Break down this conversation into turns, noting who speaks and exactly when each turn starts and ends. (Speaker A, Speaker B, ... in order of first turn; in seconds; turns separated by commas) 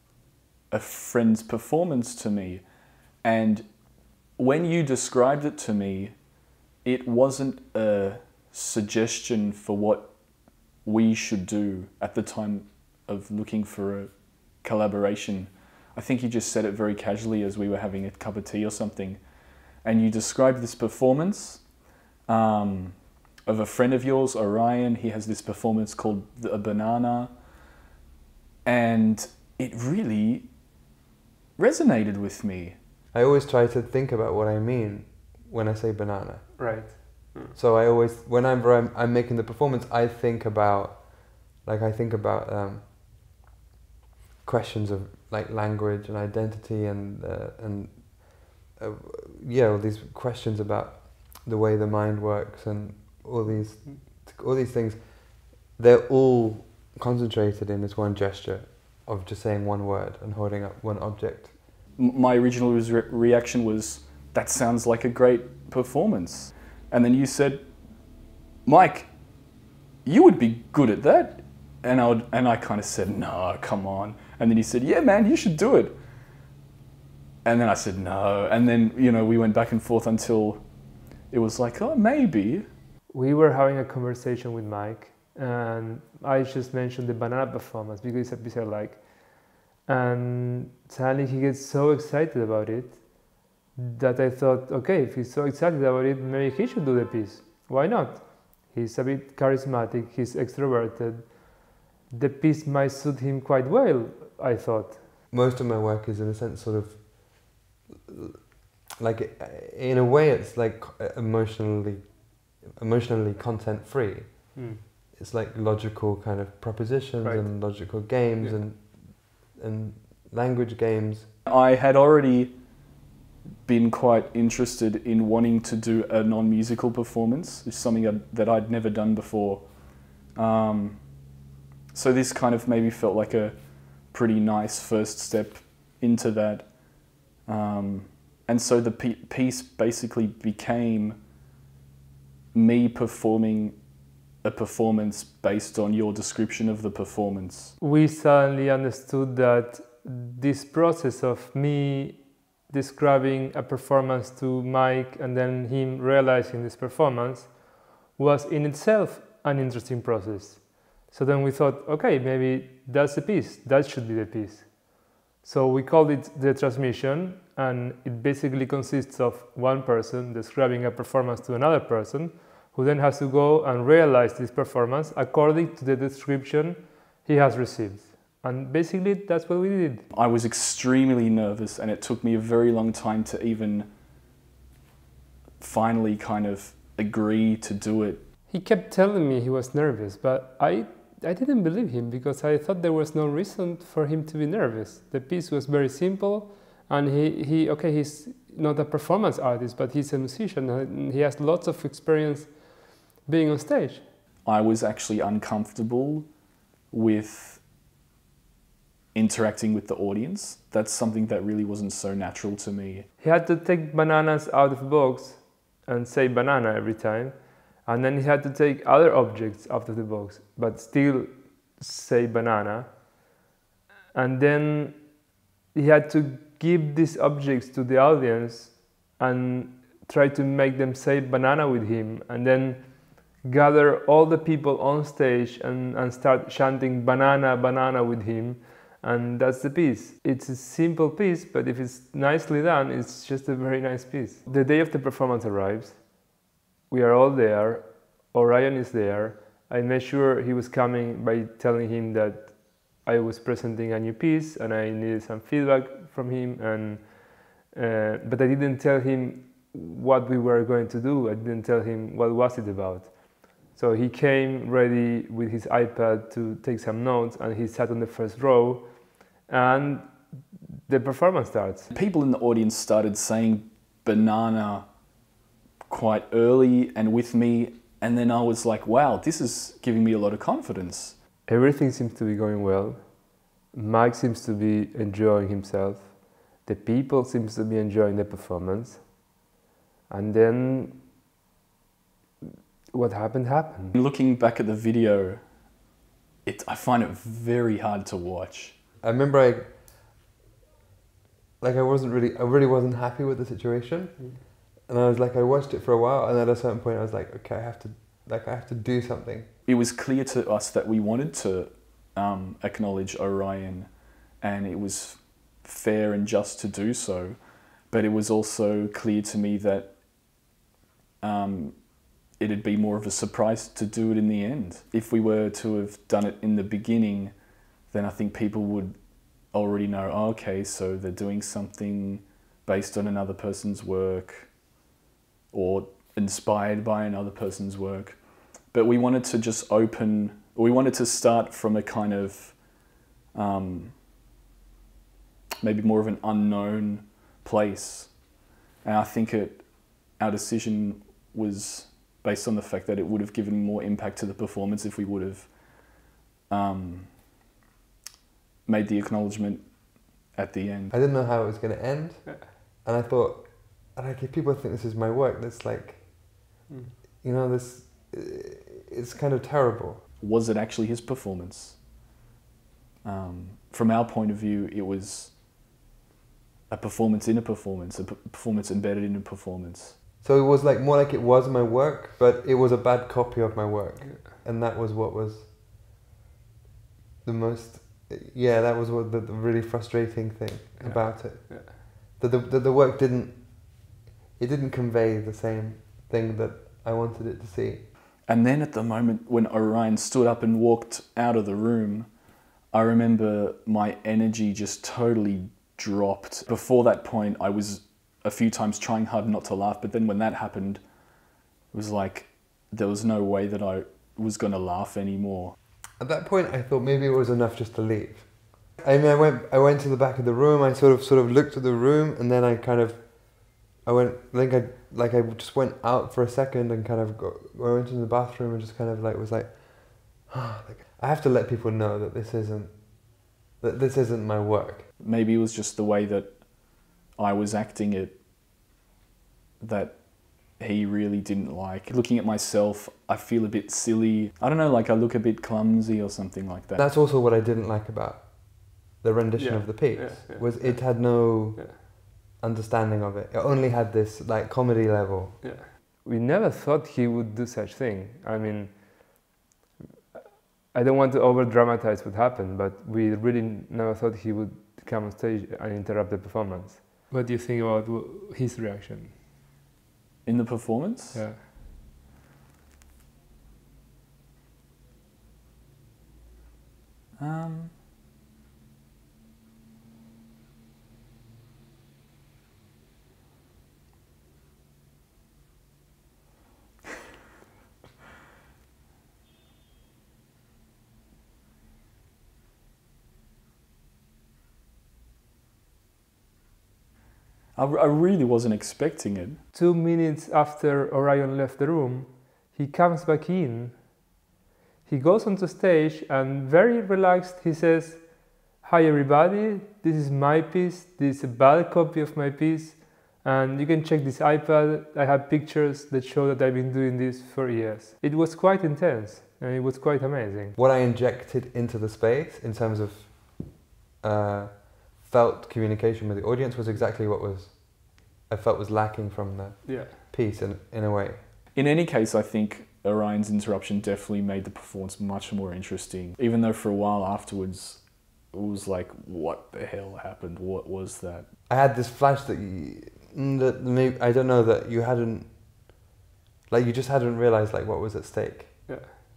Speaker A: 0.7-27.4, Speaker A: 28.6-30.6, Speaker A: 31.6-32.8, Speaker B: 33.1-43.3, Speaker C: 36.6-37.5, Speaker B: 44.4-61.7, Speaker A: 62.0-76.0, Speaker A: 77.4-82.7, Speaker C: 83.1-105.0, Speaker B: 105.3-121.3, Speaker C: 114.5-114.8, Speaker C: 117.2-118.6, Speaker A: 121.4-122.8, Speaker A: 123.6-131.4, Speaker A: 131.9-141.2, Speaker A: 142.5-147.8, Speaker C: 147.8-180.0, Speaker A: 180.1-183.9, Speaker A: 185.6-188.2, Speaker C: 188.5-204.1, Speaker A: 204.4-207.6, Speaker A: 209.1-213.1, Speaker C: 213.2-223.2, Speaker C: 224.1-271.9, Speaker A: 271.9-275.1, Speaker A: 275.9-281.2, Speaker C: 281.4-289.4, Speaker C: 290.1-291.0, Speaker C: 292.9-293.9, Speaker A: 293.9-295.8, Speaker A: 296.4-298.8, Speaker B: 299.0-299.9, Speaker B: 301.6-309.5, Speaker A: 309.6-320.4, Speaker A: 321.2-334.6, Speaker A: 335.5-344.0, Speaker A: 345.6-357.2, Speaker A: 358.6-360.9, Speaker B: 360.9-366.5, Speaker C: 366.7-366.9, Speaker B: 367.2-370.0, Speaker A: 370.2-371.8, Speaker A: 373.0-375.4, Speaker A: 376.7-380.0, Speaker B: 380.2-385.8, Speaker C: 384.0-384.3, Speaker B: 387.2-397.9, Speaker C: 390.8-391.7, Speaker A: 398.2-415.6, Speaker B: 416.0-434.9, Speaker A: 435.0-438.2, Speaker A: 439.6-446.8, Speaker B: 446.8-455.5, Speaker C: 449.4-451.8, Speaker C: 455.4-459.3, Speaker C: 460.1-469.1, Speaker A: 470.2-471.2, Speaker C: 471.1-471.4, Speaker A: 477.2-477.7, Speaker A: 497.5-499.4, Speaker C: 499.5-504.1, Speaker C: 504.9-520.5, Speaker B: 520.5-531.2, Speaker C: 529.6-529.9, Speaker A: 531.5-541.3, Speaker B: 541.5-545.9, Speaker B: 546.5-548.9, Speaker C: 548.7-548.9